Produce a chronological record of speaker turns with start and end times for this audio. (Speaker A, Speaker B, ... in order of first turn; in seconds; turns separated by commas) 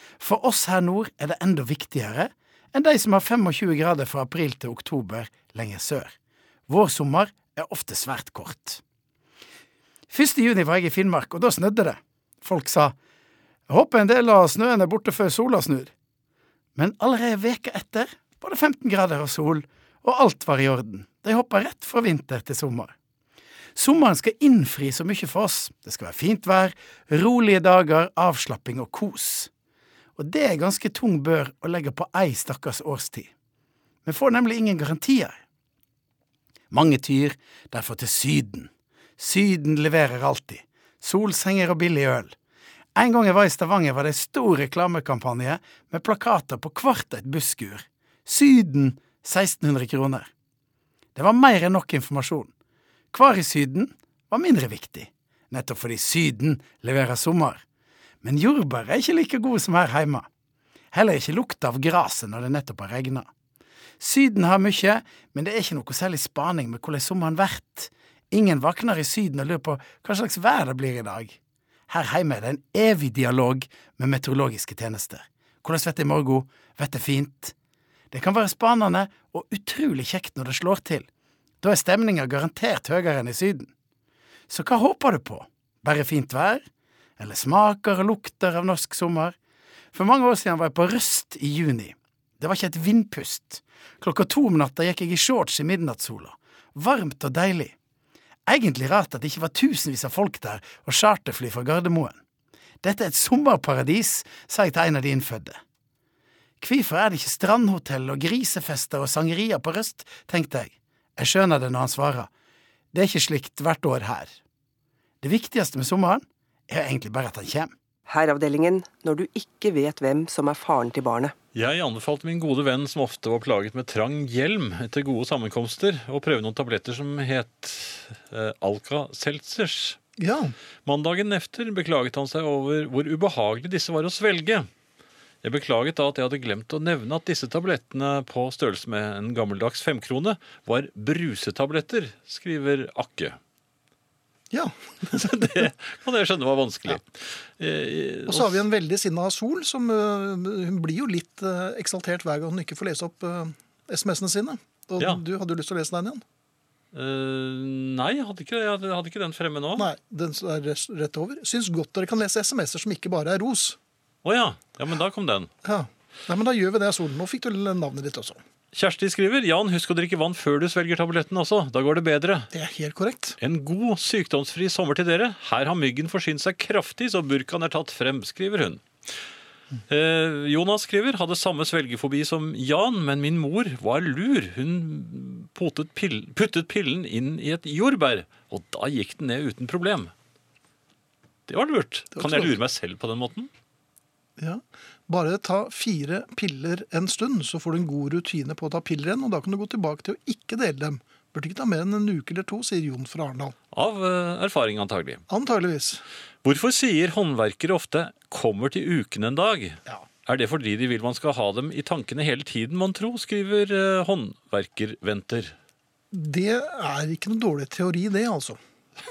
Speaker A: 0.2-6.1, Speaker A: 6.7-8.8, Speaker A: 10.1-12.9, Speaker A: 13.7-15.9, Speaker A: 16.8-22.9, Speaker A: 23.8-29.5, Speaker A: 30.2-33.3, Speaker A: 34.0-35.4, Speaker A: 36.7-42.4, Speaker A: 43.0-50.3, Speaker A: 51.1-52.5, Speaker A: 53.1-57.6, Speaker A: 58.2-60.3, Speaker A: 60.9-63.3, Speaker A: 64.0-71.4, Speaker A: 71.9-77.5, Speaker A: 78.1-81.1, Speaker A: 81.6-83.7, Speaker A: 84.5-86.7, Speaker A: 87.2-89.4, Speaker A: 89.9-97.7, Speaker A: 98.5-102.2, Speaker A: 102.8-105.6, Speaker A: 106.6-112.3, Speaker A: 112.9-114.3, Speaker A: 115.2-117.7, Speaker B: 118.1-121.3, Speaker C: 121.5-130.0, Speaker D: 130.2-130.6, Speaker C: 130.9-134.7, Speaker C: 135.4-143.4, Speaker D: 144.5-145.7, Speaker C: 145.1-148.6, Speaker D: 148.3-156.2, Speaker C: 156.9-159.9, Speaker D: 159.8-163.8, Speaker C: 164.2-165.5, Speaker D: 165.6-168.4, Speaker C: 168.7-172.5, Speaker D: 172.5-173.4, Speaker C: 173.4-178.8, Speaker C: 179.9-190.1, Speaker C: 191.5-193.5, Speaker D: 192.1-192.6, Speaker D: 194.4-203.6, Speaker C: 203.7-205.2, Speaker D: 205.3-206.0, Speaker C: 206.4-215.6, Speaker D: 216.1-218.6